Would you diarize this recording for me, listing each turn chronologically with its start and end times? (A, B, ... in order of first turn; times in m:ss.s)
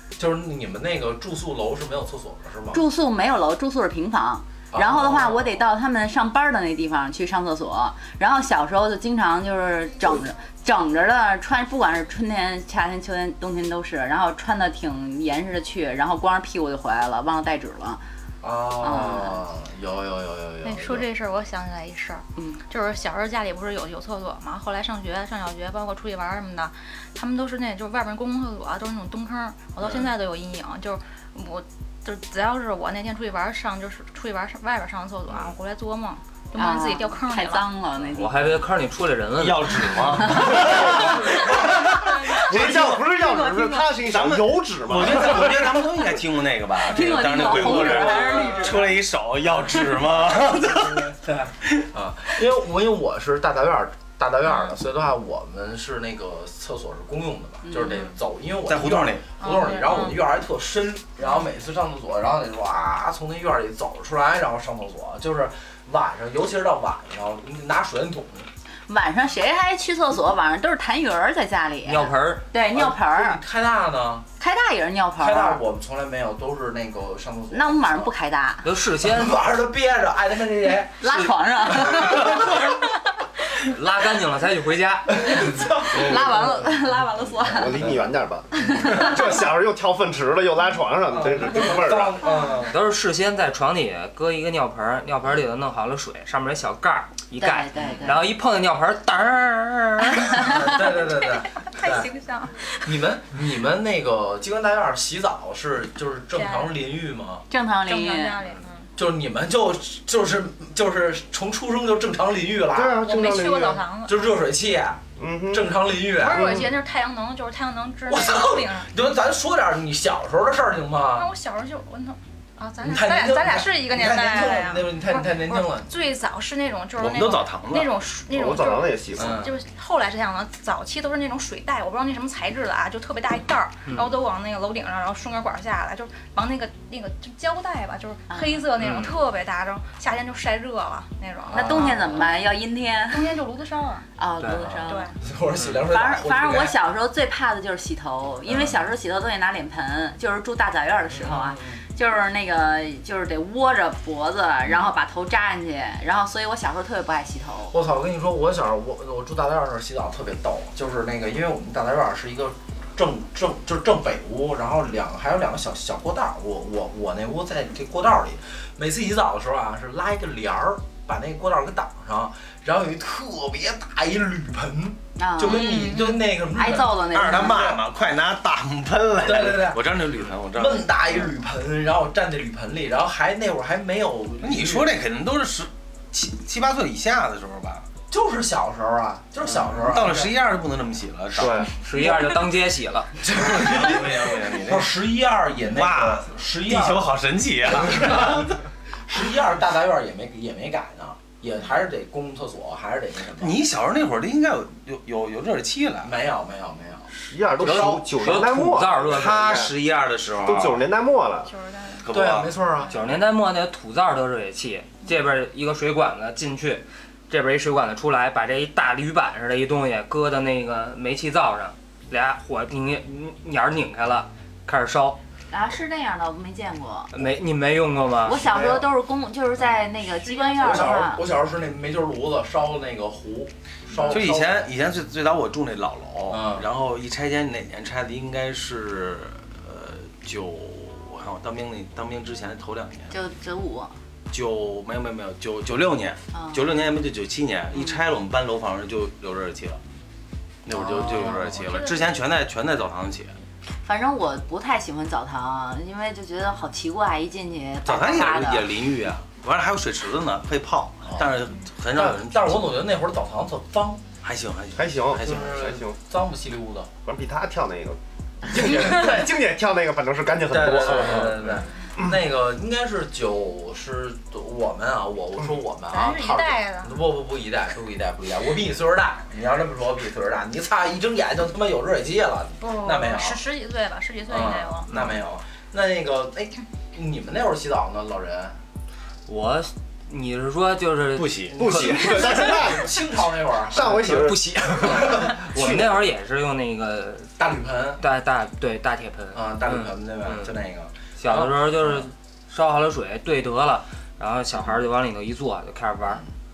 0:00.2-0:02.8 A
0:02.7-0:18.0 B
0:04.7-0:05.6 A
0:18.4-0:21.1 A
0:18.8-0:19.4 B
0:20.6-0:37.6 C
0:22.4-0:22.6 B
0:36.6-0:38.6 B
0:38.2-0:40.7 D
0:39.4-0:43.2 E
0:40.6-0:41.2 A
0:40.7-0:45.8 F
0:42.0-0:42.5 C
0:42.9-0:43.9 B
0:43.9-0:51.2 E
0:46.8-0:48.9 B
0:47.4-0:48.9 A
0:50.7-1:08.5 A
0:54.5-0:54.7 C
0:57.7-0:58.1 B
0:58.6-0:59.3 E
0:59.4-1:00.2 C
1:08.9-1:13.4 B
1:11.8-1:12.5 D
1:12.6-1:14.2 A
1:14.4-1:15.6 B
1:15.2-1:18.1 A
1:17.5-1:18.7 B
1:18.6-1:19.4 D
1:19.0-1:22.6 A
1:21.0-1:22.7 B
1:23.6-1:25.6 D
1:25.1-1:26.7 A
1:25.5-1:27.7 B
1:27.5-1:32.2 F
1:27.6-1:27.9 A
1:28.6-1:29.1 A
1:28.8-1:29.1 B
1:31.1-1:32.8 A
1:32.2-1:32.7 C
1:32.7-1:40.7 D
1:37.4-1:38.3 B
1:37.8-1:38.1 A
1:40.2-1:42.1 A
1:41.2-1:42.9 C
1:42.8-1:47.4 A
1:46.3-1:46.8 C
1:47.5-1:48.4 B
1:47.9-1:48.9 C
1:49.0-1:53.0 A
1:52.7-1:53.8 F
1:53.0-1:54.3 C
1:54.1-1:56.6 A
1:55.2-1:56.7 F
1:56.2-1:58.9 C
1:58.1-2:01.3 A
2:01.2-2:22.2 C
2:02.8-2:05.9 A
2:07.0-2:07.9 E
2:08.3-2:09.4 F
2:09.2-2:09.5 A
2:18.3-2:18.7 B
2:18.8-2:19.2 D
2:21.5-2:22.3 A
2:21.5-2:23.4 B
2:23.1-2:24.1 C
2:24.2-2:25.1 B
2:24.6-2:26.8 A
2:24.9-2:25.2 C
2:25.8-2:37.8 B
2:28.5-2:28.8 A
2:31.1-2:31.8 A
2:37.7-2:57.8 A
2:55.2-2:57.7 B
2:55.4-2:56.2 C
2:57.1-3:01.2 E
2:59.2-2:59.9 A
3:00.5-3:04.9 A
3:04.4-3:07.9 E
3:08.1-3:10.3 A
3:09.4-3:11.7 E
3:11.3-3:11.7 F
3:11.8-3:13.2 D
3:13.2-3:17.1 A
3:13.3-3:15.0 E
3:15.7-3:18.5 E
3:17.7-3:23.6 A
3:23.4-3:26.1 E
3:26.0-3:27.1 A
3:27.1-3:29.7 F
3:27.6-3:29.6 D
3:27.6-3:28.0 A
3:28.3-3:30.8 E
3:30.4-3:31.5 F
3:31.5-3:32.1 C
3:32.0-3:32.5 E
3:32.1-3:32.9 A
3:32.9-3:45.2 D
3:45.5-3:47.1 B
3:47.1-3:48.4 D
3:48.2-3:51.2 B
3:48.3-3:48.9 A
3:50.4-3:50.8 C
3:50.5-3:54.7 A
3:54.0-4:03.1 E
3:56.3-3:56.7 A
4:03.1-4:03.9 B
4:04.3-4:09.8 E
4:06.3-4:06.6 B
4:10.7-4:13.4 E
4:10.7-4:11.6 A
4:11.6-4:12.1 C
4:13.8-4:18.7 B
4:17.9-4:22.8 E
4:21.1-4:21.4 A
4:21.9-4:24.0 A
4:24.2-4:25.8 E
4:24.8-4:26.0 F
4:25.3-4:26.9 A
4:27.0-4:31.5 F
4:30.5-4:43.4 A
4:35.9-4:36.9 C
4:42.6-4:44.9 C
4:44.3-4:48.6 A
4:49.3-4:52.8 D
4:51.2-4:51.6 E
4:51.6-4:52.9 F
4:51.7-4:55.8 A
4:53.7-4:55.3 F
4:53.8-4:57.3 D
4:57.4-4:58.0 A
4:58.0-5:00.5 D
4:59.3-5:02.1 A
5:01.2-5:06.2 D